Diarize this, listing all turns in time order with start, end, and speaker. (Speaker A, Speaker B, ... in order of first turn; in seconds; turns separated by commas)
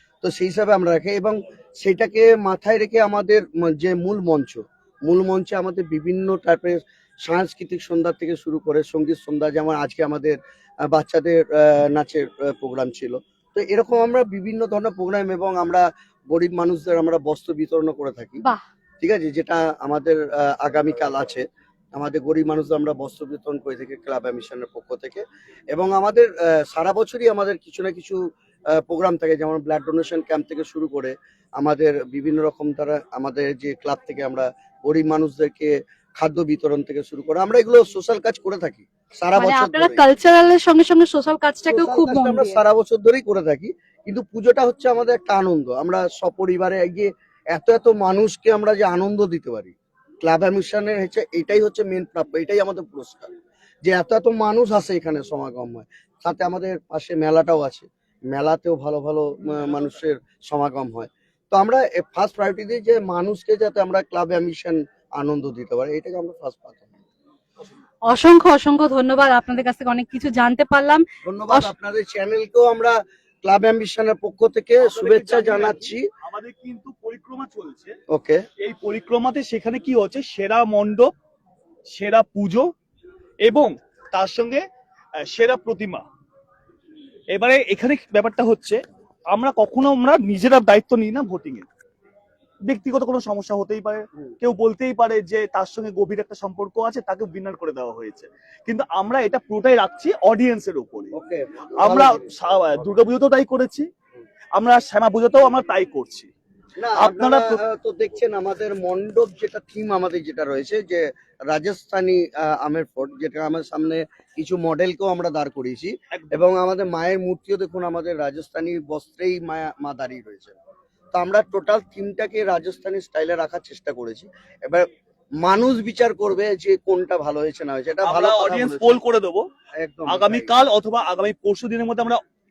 Speaker A: 0.2-18.4, Speaker A: 19.0-40.0, Speaker B: 39.4-42.6, Speaker A: 41.7-53.3, Speaker A: 53.9-67.0, Speaker B: 68.1-71.7, Speaker A: 71.2-76.1, Speaker C: 74.8-78.0, Speaker A: 78.1-78.5, Speaker C: 78.6-81.1, Speaker C: 81.9-82.7, Speaker C: 83.4-84.6, Speaker C: 85.2-86.0, Speaker C: 87.3-88.8, Speaker C: 89.3-91.7, Speaker C: 92.7-101.1, Speaker A: 101.1-102.3, Speaker C: 101.8-103.9, Speaker C: 104.5-106.3, Speaker A: 106.8-120.6, Speaker C: 107.0-107.6, Speaker C: 116.1-116.5, Speaker A: 121.1-124.9, Speaker A: 125.4-129.0, Speaker C: 128.1-129.4, Speaker A: 129.8-130.5, Speaker C: 130.1-132.2